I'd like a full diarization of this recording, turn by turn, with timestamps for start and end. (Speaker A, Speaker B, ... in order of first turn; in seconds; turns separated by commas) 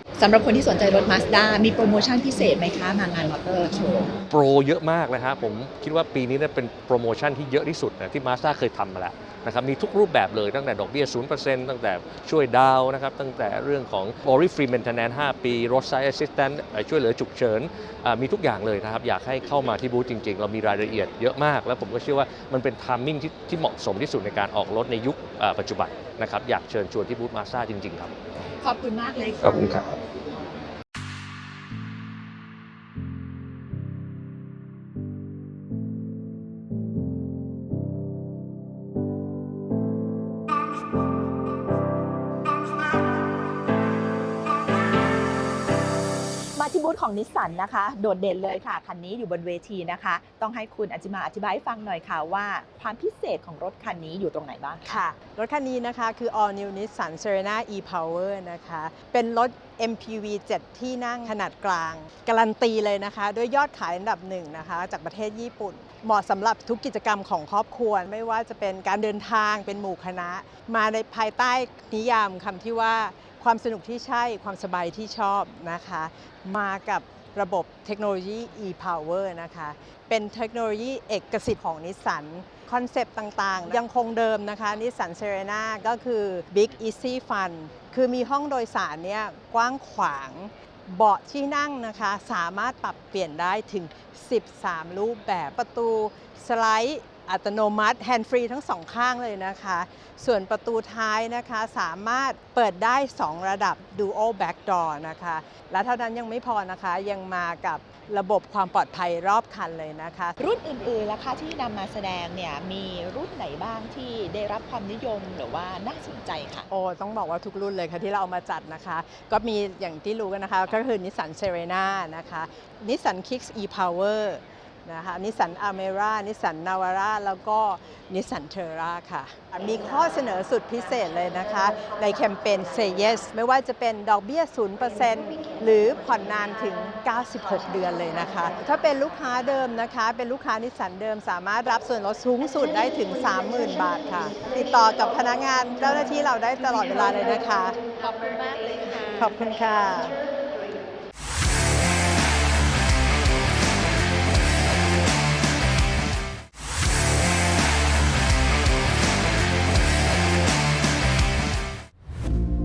Speaker A: 0.2-4.1, Speaker B: 4.3-28.1, Speaker A: 28.6-29.8, Speaker B: 29.5-29.8, Speaker A: 46.6-55.0, Speaker C: 54.9-110.4, Speaker A: 110.4-116.7, Speaker C: 116.7-147.8, Speaker A: 148.0-149.2, Speaker C: 149.2-150.1